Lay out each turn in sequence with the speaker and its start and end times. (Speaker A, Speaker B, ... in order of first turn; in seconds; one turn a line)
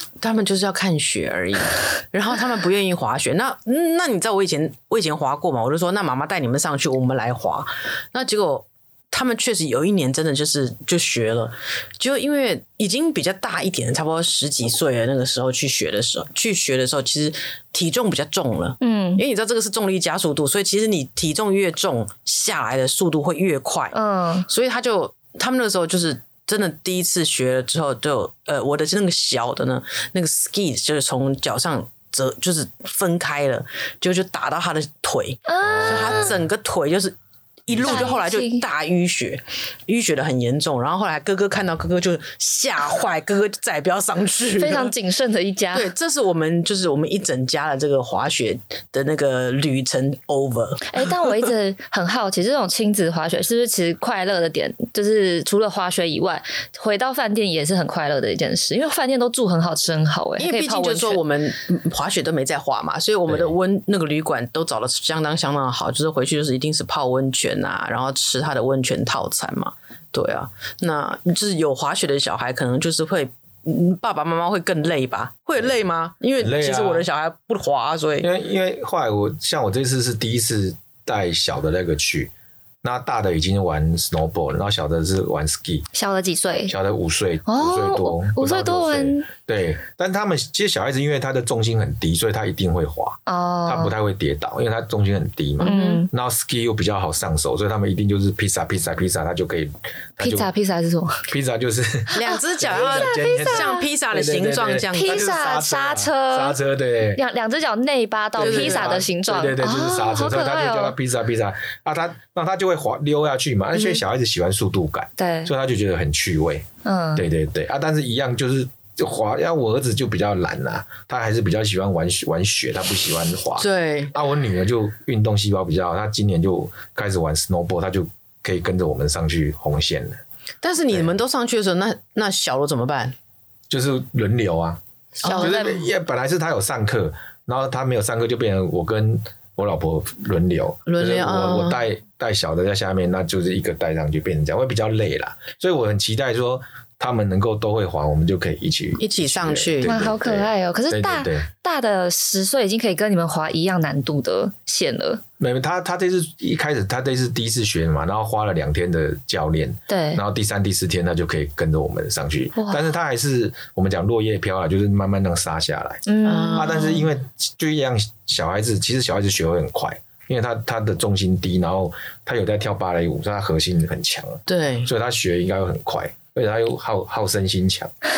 Speaker A: 0.2-24.0
Speaker B: 18.8-19.2
Speaker B: 23.9-24.5
Speaker A: 24.5-44.9
Speaker B: 35.5-36.3
Speaker C: 35.6-36.2
Speaker C: 37.7-38.1
Speaker B: 37.8-38.6
Speaker B: 44.6-45.9
Speaker A: 45.7-51.3
Speaker B: 50.9-61.2
Speaker A: 60.4-78.3
Speaker C: 76.4-77.1
Speaker C: 78.2-82.3
Speaker C: 82.8-85.9
Speaker B: 85.9-86.7
Speaker C: 86.7-100.5
Speaker B: 87.5-89.3
Speaker B: 93.3-93.9
Speaker A: 95.6-96.0
Speaker B: 95.6-96.1
Speaker B: 100.2-101.3
Speaker C: 101.3-107.2
Speaker A: 102.1-105.3
Speaker B: 102.1-103.8
Speaker B: 104.9-106.6
Speaker B: 107.2-111.0
Speaker A: 108.4-109.1
Speaker C: 108.4-130.2
Speaker B: 115.2-115.5
Speaker B: 116.8-117.2
Speaker A: 123.6-124.1
Speaker A: 130.6-133.1
Speaker C: 133.7-134.8
Speaker A: 135.2-135.6
Speaker B: 135.2-135.8
Speaker C: 135.4-151.5
Speaker A: 140.8-141.8
Speaker A: 149.0-149.9
Speaker B: 149.8-155.2
Speaker C: 155.4-177.9
Speaker B: 159.9-160.2
Speaker B: 162.6-162.8
Speaker B: 166.1-167.0
Speaker A: 166.2-167.0
Speaker A: 174.5-174.9